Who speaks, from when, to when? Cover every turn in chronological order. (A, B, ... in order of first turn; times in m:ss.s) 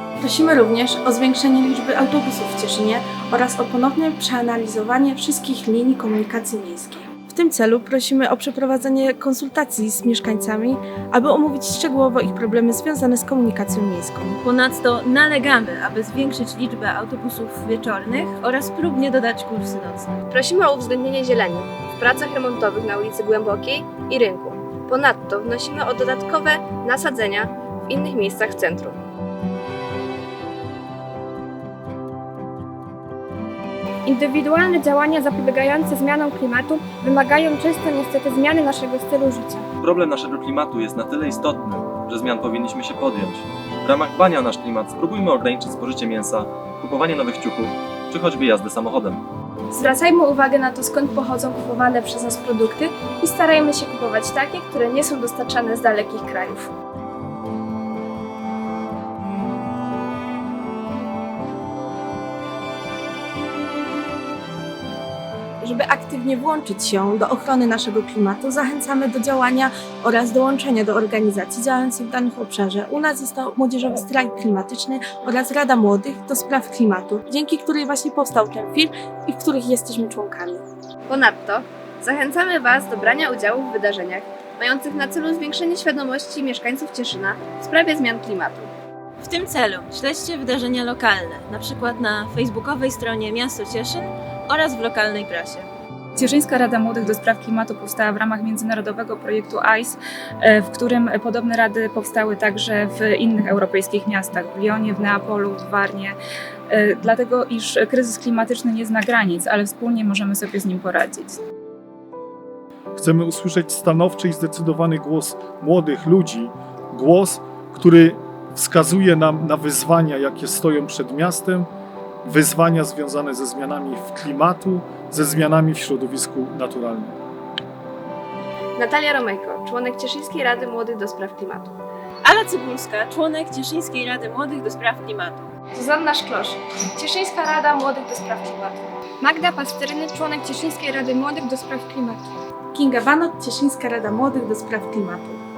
0:00.2-0:14.4 A
0:14.4-0:20.1 B
0:20.3-0:29.0 C
0:34.0-0:39.6 D
0:39.8-0:49.2 E
0:49.7-0:56.7 F
1:05.6-1:20.6 A
1:21.1-1:28.7 C
1:29.2-1:35.7 B
1:36.2-1:46.1 G
1:46.7-1:51.4 G
1:53.0-2:01.7 H
2:02.2-2:07.2 H
2:08.8-2:11.8 C
2:12.2-2:15.5 B
2:15.7-2:19.0 F
2:19.2-2:22.2 D
2:22.7-2:25.4 A